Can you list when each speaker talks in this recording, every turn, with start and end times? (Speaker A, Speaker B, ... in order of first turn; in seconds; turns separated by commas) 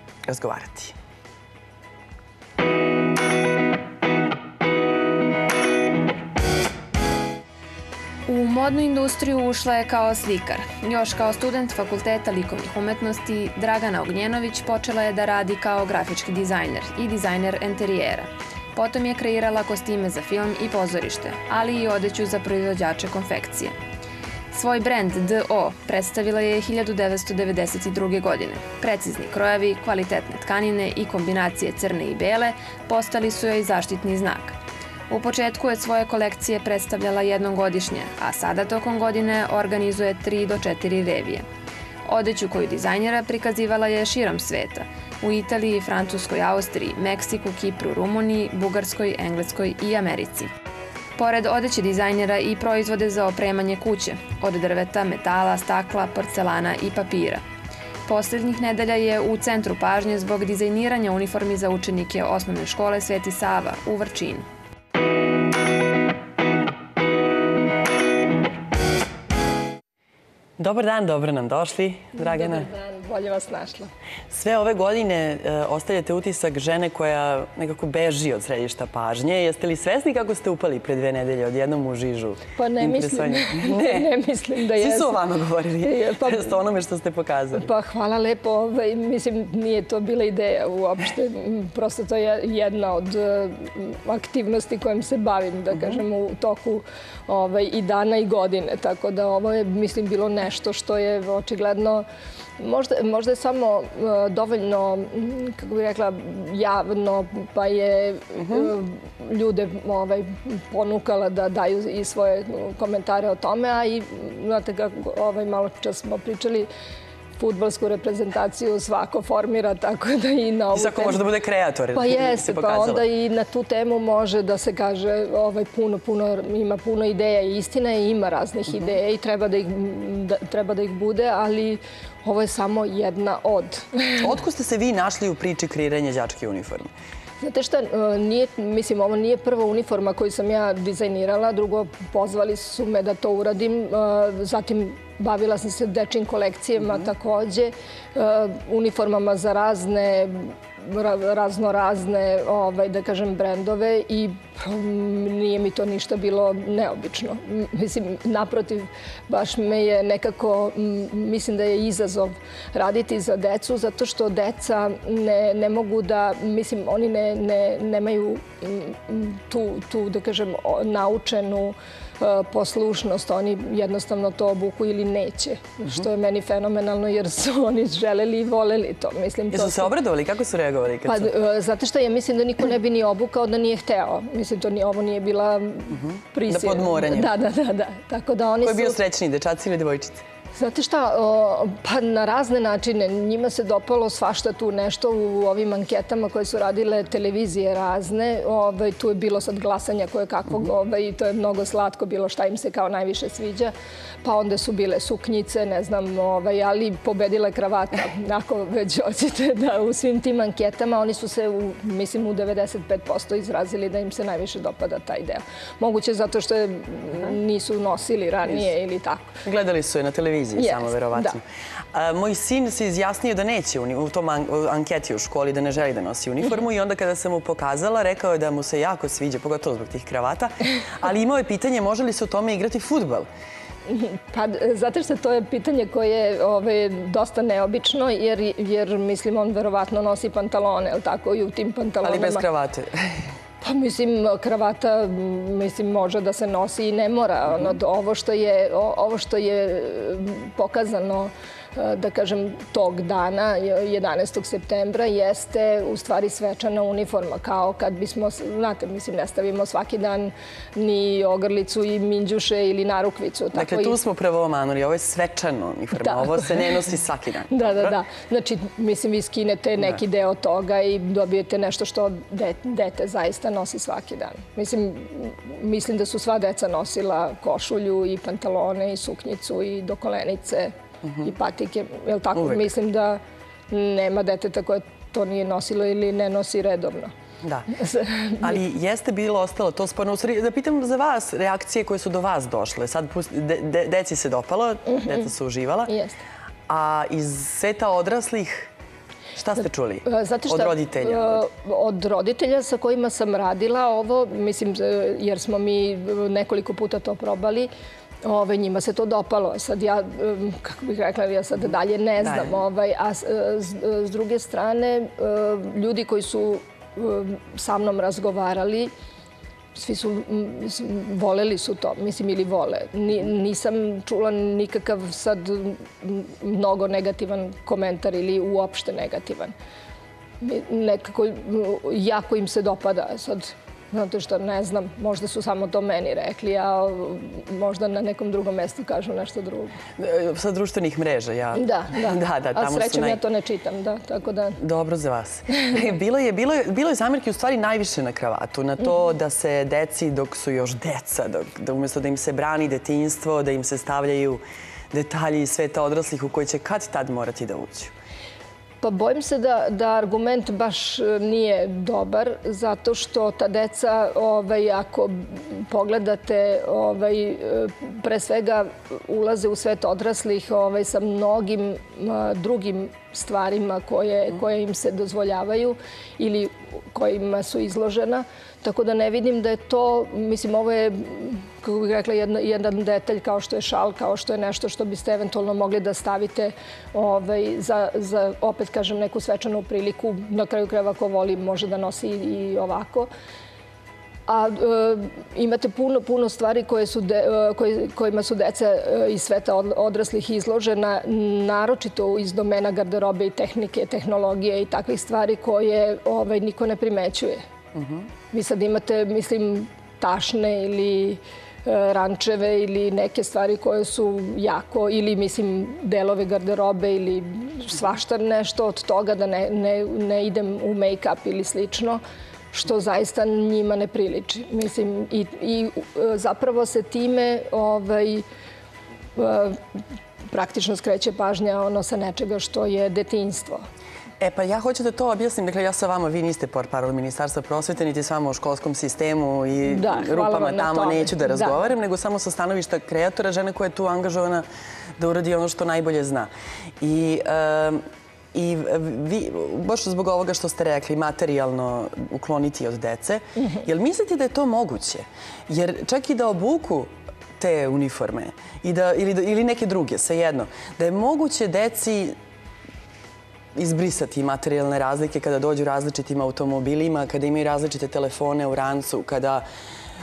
Speaker A: 0.3-0.9, Speaker B: 8.3-23.8, Speaker B: 24.5-34.6, Speaker B: 35.1-41.5, Speaker B: 42.1-50.5, Speaker B: 51.2-57.4, Speaker B: 58.1-64.5, Speaker A: 70.6-72.7, Speaker C: 72.2-73.9, Speaker A: 74.3-84.1, Speaker C: 82.6-85.2, Speaker A: 84.8-87.7, Speaker C: 85.8-86.6, Speaker C: 87.6-102.0, Speaker C: 102.6-116.7, Speaker C: 117.4-121.2, Speaker A: 120.7-123.0, Speaker C: 121.9-134.3, Speaker A: 134.2-136.9, Speaker C: 137.4-179.9, Speaker A: 179.5-181.3, Speaker C: 181.1-189.0, Speaker A: 186.1-187.3, Speaker A: 188.6-190.2, Speaker C: 190.6-203.7, Speaker C: 204.2-219.3, Speaker A: 219.4-233.3, Speaker C: 220.6-221.4, Speaker C: 233.9-242.4, Speaker A: 242.0-243.2, Speaker C: 243.6-264.0, Speaker A: 263.5-267.9, Speaker C: 266.1-266.4, Speaker C: 267.5-287.1, Speaker A: 282.4-282.6, Speaker A: 287.4-287.7, Speaker C: 287.7-288.6, Speaker A: 288.4-295.9, Speaker C: 294.9-295.3, Speaker C: 295.9-296.2, Speaker A: 296.7-298.7, Speaker A: 299.4-301.4, Speaker C: 300.1-307.7, Speaker C: 308.2-318.9, Speaker A: 312.2-312.6, Speaker C: 319.8-329.5, Speaker C: 330.4-339.8, Speaker A: 340.0-343.2, Speaker C: 341.6-344.6, Speaker A: 344.6-357.9, Speaker C: 358.8-393.1, Speaker C: 394.3-407.4, Speaker A: 407.8-408.1, Speaker C: 408.3-422.0, Speaker C: 422.5-428.2, Speaker C: 429.2-429.6, Speaker C: 430.3-433.6, Speaker A: 434.2-444.5, Speaker C: 439.7-441.7, Speaker A: 445.0-447.8, Speaker A: 448.3-462.2, Speaker A: 463.6-469.4